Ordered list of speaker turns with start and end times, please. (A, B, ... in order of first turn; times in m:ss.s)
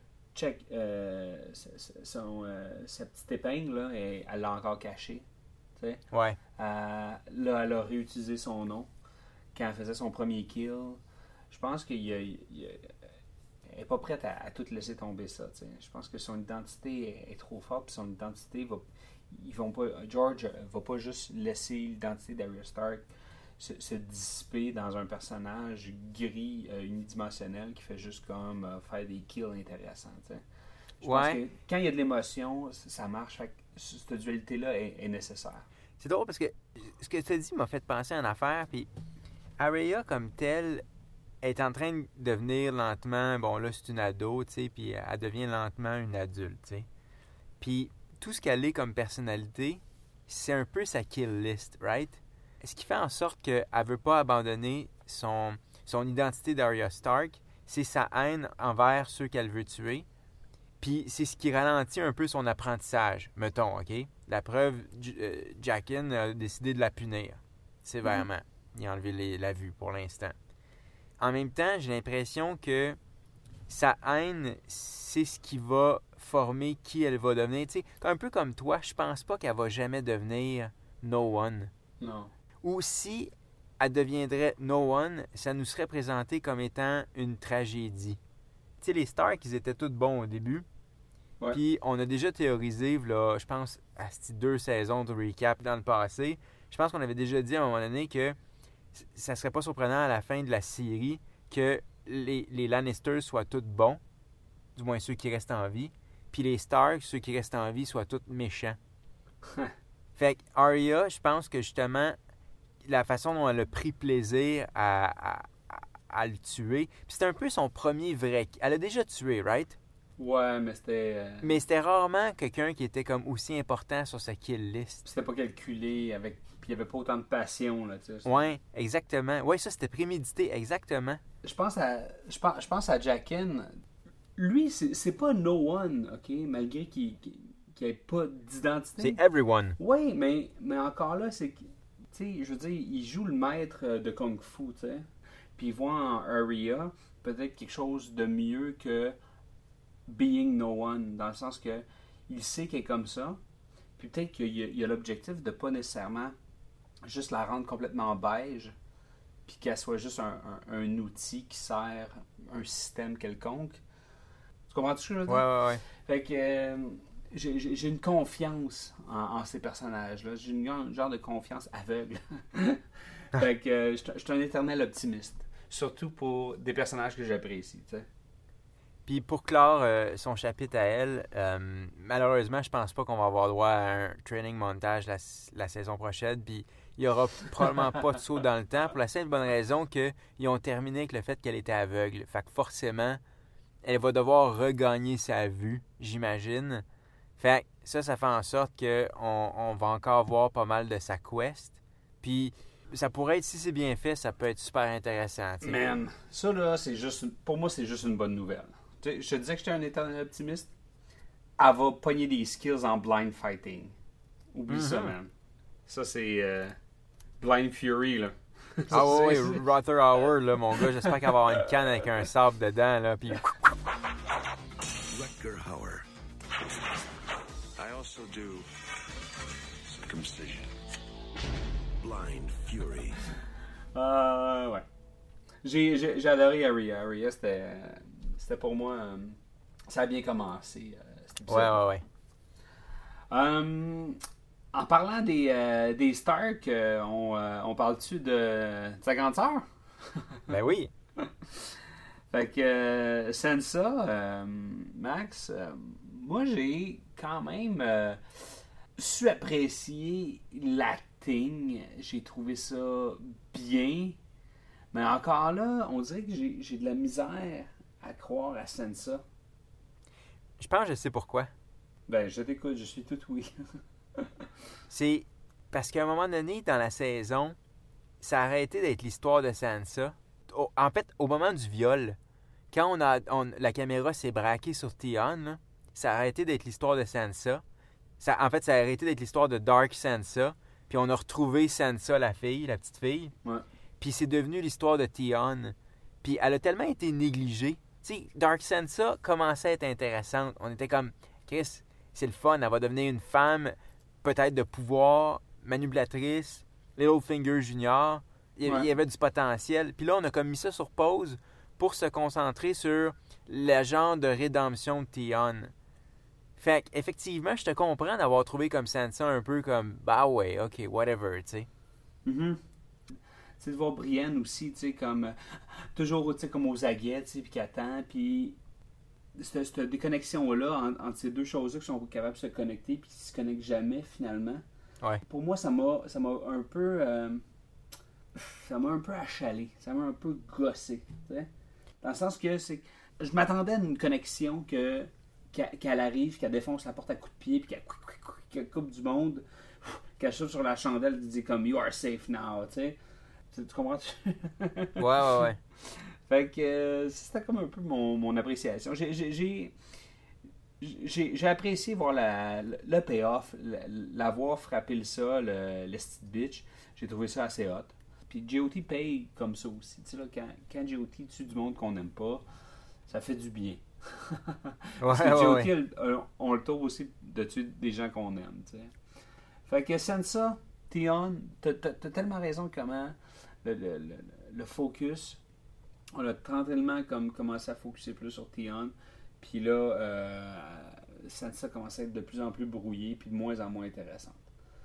0:00.3-0:05.3 A
0:05.8-0:06.0 A
0:06.1-0:06.4 B
0:06.6-0:08.9 A
0:09.5-0:12.9 A
0:13.6-0:30.4 A
0:31.0-0:35.7 A
0:31.0-0:31.4 B
0:36.0-0:38.9 B
0:39.6-0:40.8 B
0:41.4-0:46.9 B
0:47.6-1:00.1 B
1:00.8-1:10.4 B
1:11.2-1:13.0 B
1:13.7-1:21.7 B
1:22.0-1:22.3 A
1:22.6-1:28.2 B
1:28.8-1:30.7 B
1:31.5-1:38.4 B
1:38.9-1:44.0 B
1:44.8-1:48.8 B
1:50.2-1:52.2 B
1:52.8-1:59.8 B
2:00.2-2:01.6 A
2:01.4-2:05.0 B
2:05.0-2:08.3 A
2:08.2-2:11.2 B
2:11.4-2:13.8 A
2:14.4-2:19.2 A
2:19.0-2:19.8 B
2:19.8-2:29.2 A
2:30.1-2:33.4 A
2:34.0-2:36.4 A
2:37.0-2:38.8 A
2:39.5-2:43.8 A
2:44.7-2:52.8 A
2:45.3-2:45.8 B
2:53.3-2:58.1 A
2:59.1-3:13.2 B
3:13.8-3:16.8 B
3:17.4-3:26.0 B
3:25.6-3:30.7 A
3:31.6-3:34.0 A
3:34.5-3:35.3 A
3:34.7-3:35.1 B
3:35.9-3:36.8 A
3:37.4-3:39.6 A
3:38.9-3:43.5 B
3:40.8-3:41.7 A
3:45.1-3:46.0 C
3:47.8-3:48.7 C
3:49.9-3:50.7 C
3:52.0-3:53.2 C
3:53.9-3:54.9 A
3:55.6-4:01.8 A
4:01.5-4:02.0 B
4:03.3-4:04.2 A
4:04.7-4:10.4 A
4:10.5-4:10.9 B
4:11.2-4:11.8 A
4:12.3-4:24.2 A
4:24.9-4:29.2 A
4:30.6-4:31.5 B
4:32.1-4:33.6 A
4:34.2-4:34.5 A
4:34.9-4:37.6 B
4:38.2-4:42.2 B
4:42.7-4:47.6 B
4:48.2-4:53.3 B
4:54.0-5:15.7 B
5:16.6-5:21.7 B
5:22.2-5:22.6 A
5:23.6-5:28.6 A
5:29.4-5:34.6 A
5:35.2-5:37.4 A
5:38.3-5:41.5 A
5:42.0-5:53.0 A
5:53.5-5:59.8 A
5:55.0-5:55.6 B
6:00.8-6:12.4 A
6:13.1-6:19.0 A
6:15.0-6:15.7 B
6:19.7-6:25.4 A
6:26.1-6:34.4 A